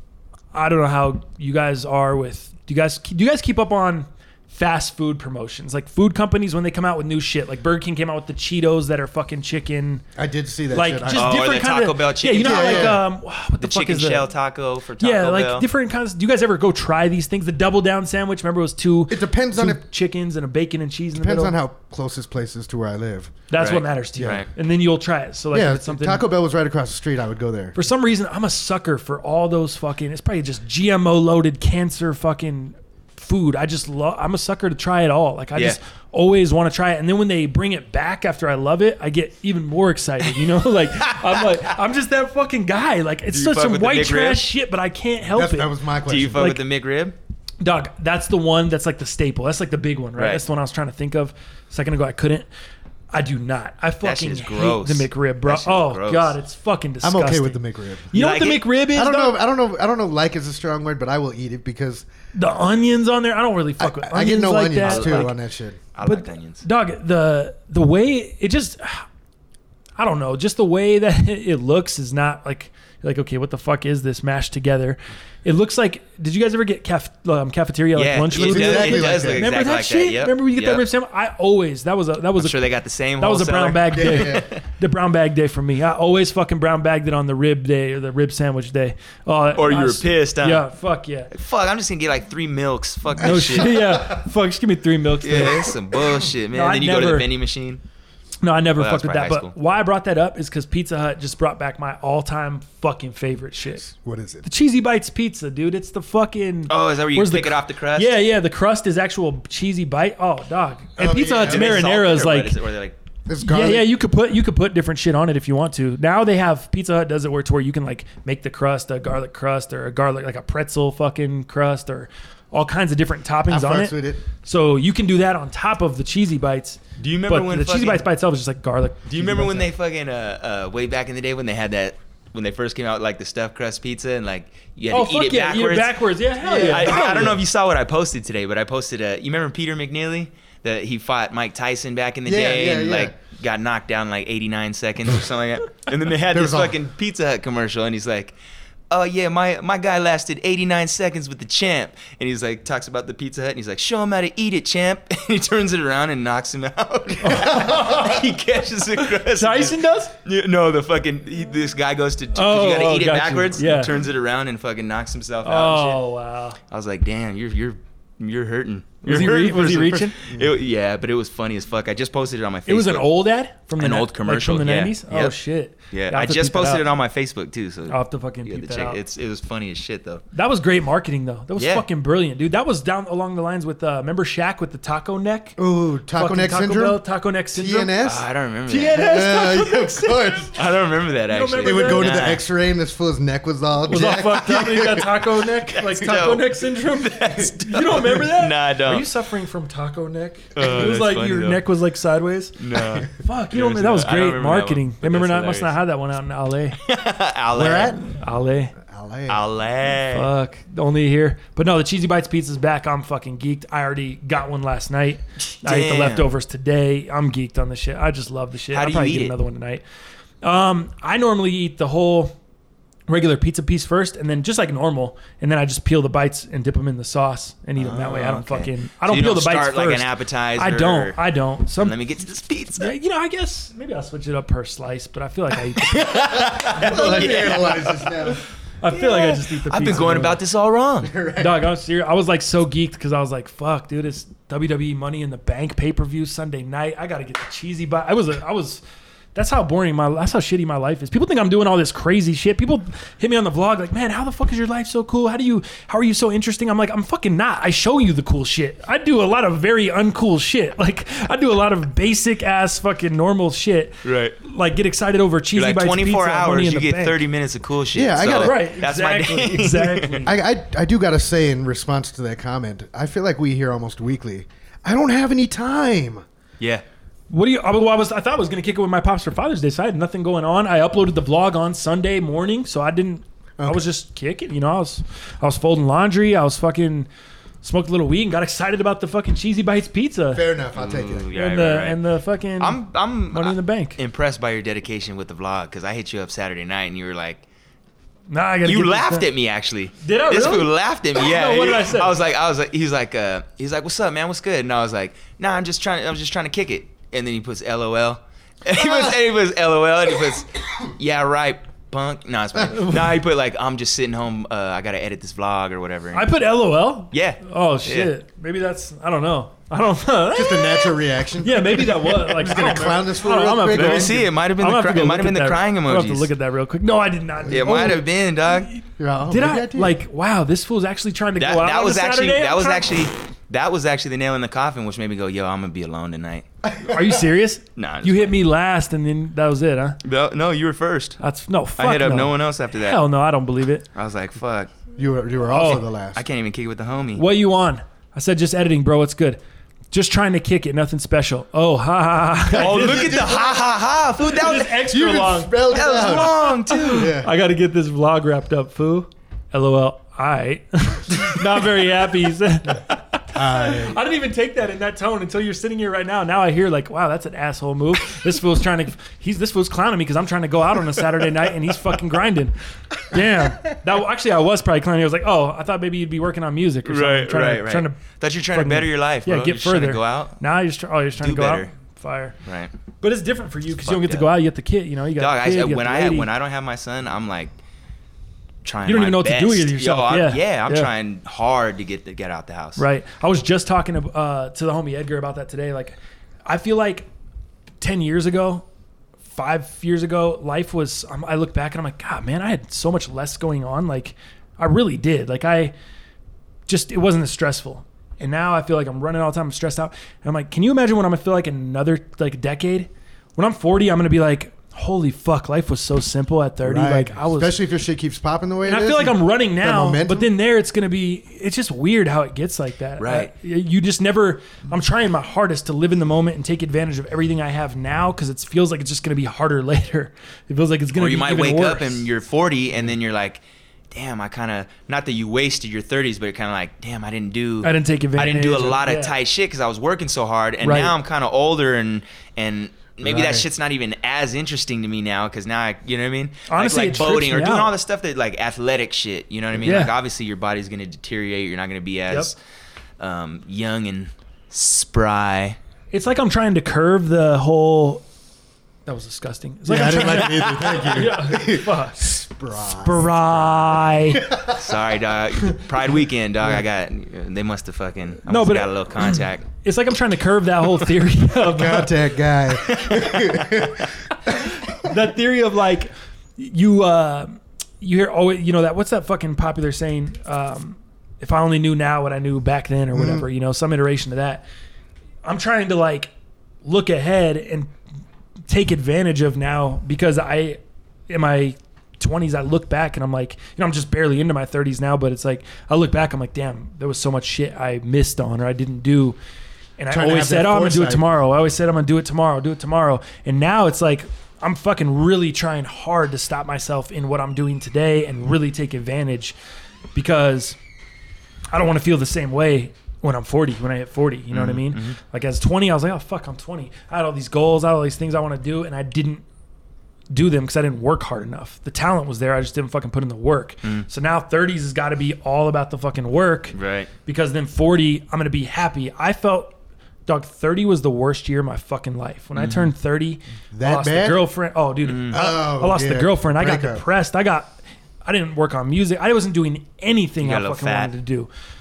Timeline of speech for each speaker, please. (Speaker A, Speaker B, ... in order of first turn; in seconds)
Speaker A: 0.5-10.0, 10.7-14.3, 15.0-21.6, 23.5-26.3, 27.8-45.7, 46.4-46.6, 47.6-52.5, 53.1-59.4, 62.4-65.3, 66.0-69.1, 70.0-82.6, 83.2-91.3, 93.2-95.7, 96.5-97.3, 98.4-103.9, 104.4-112.6, 113.4-129.7, 134.9-137.4, 157.2-158.3, 159.0-160.1, 162.3-164.0, 165.4-166.6, 169.0-170.2, 172.7-176.8, 177.9-179.0, 180.3-185.6, 186.1-187.9, 188.7-190.6, 191.3-192.3, 193.9-202.6, 203.1-206.8, 208.1-208.7, 210.1-219.8, 220.4-222.3, 223.1-232.0, 232.8-237.6, 238.8-240.4, 241.4-248.8, 249.3-267.2, 268.3-270.3, 277.3-287.1, 287.6-290.4, 291.4-292.8, 293.3-294.0, 298.3-299.3, 300.0-302.1, 312.7-313.2, 316.1-332.9, 336.9-340.0, 341.2-343.9, 345.5-345.9, 347.2-349.4, 349.9-353.4, 354.2-378.0, 378.5-382.4, 383.0-386.3, 388.9-390.9, 392.8-397.1, 397.8-398.6, 399.3-405.7, 406.7-417.6, 418.6-432.1, 437.6-439.1, 440.6-440.9, 446.5-447.7, 449.6-449.9, 455.9-458.0, 458.9-462.1, 462.7-464.3, 468.2-471.9, 474.3-484.4, 485.2-486.1, 486.6-487.7, 488.5-499.2, 499.8-509.4, 509.9-510.6, 511.5-519.2, 520.1-529.6, 530.1-541.3
Speaker B: 10.2-11.4, 12.4-13.0, 19.1-19.8, 21.1-23.4, 24.2-24.4, 25.5-27.8, 45.3-46.5, 57.0-58.1, 58.9-62.1, 63.8-65.8, 78.3-79.5, 83.9-84.5, 93.3-94.0, 103.8-104.5, 111.0-111.8, 113.3-113.9, 123.5-124.2, 136.4-137.4, 142.3-143.2, 146.3-146.8, 185.6-187.0, 187.5-188.3, 188.9-190.6, 191.6-195.1, 207.5-208.0, 208.8-209.4, 236.6-238.4, 241.0-241.6, 267.9-268.6, 270.2-276.2, 283.6-283.9, 290.3-291.3, 320.3-324.3, 329.0-330.0, 336.6-337.2, 345.0-346.2, 352.6-353.6, 354.9-357.3, 363.3-364.0, 416.6-420.3, 443.0-443.4, 459.7-464.6, 471.5-473.9, 482.9-483.2, 499.9-501.1, 533.5-534.2, 535.1-536.8
Speaker C: 11.1-13.0, 13.6-15.7, 23.6-24.5, 41.0-41.6, 43.3-44.5, 46.1-47.2, 50.2-50.4, 54.0-56.4, 58.1-58.7, 64.8-65.3, 66.0-66.6, 78.0-80.8, 82.4-84.6, 89.5-90.7, 91.3-94.0, 95.2-97.8, 98.8-99.5, 106.7-108.2, 111.4-113.0, 127.0-128.1, 129.1-148.4, 148.9-166.0, 166.7-173.1, 173.8-175.4, 175.9-180.2, 181.6-181.8, 188.0-189.1, 190.6-192.4, 195.7-199.1, 200.6-201.6, 202.6-205.8, 206.8-208.0, 209.3-210.3, 215.5-216.3, 218.7-219.3, 227.8-231.2, 231.8-232.9, 235.8-238.3, 238.9-241.1, 264.1-264.4, 265.6-270.2, 290.8-292.0, 292.6-297.4, 298.6-316.3, 317.1-318.1, 323.7-326.3, 327.5-328.7, 331.4-336.4, 337.8-338.4, 340.0-341.2, 341.8-343.0, 343.9-344.7, 346.1-347.2, 352.5-354.8, 355.7-357.1, 376.9-380.4, 381.2-381.7, 382.4-382.7, 383.9-384.3, 385.2-387.5, 388.6-392.8, 423.0-423.3, 430.9-433.4, 433.9-452.3, 453.0-455.6, 464.5-469.4, 472.6-473.7, 514.3-515.0, 526.5-526.9, 532.4-532.7, 534.8-535.2, 540.2-540.9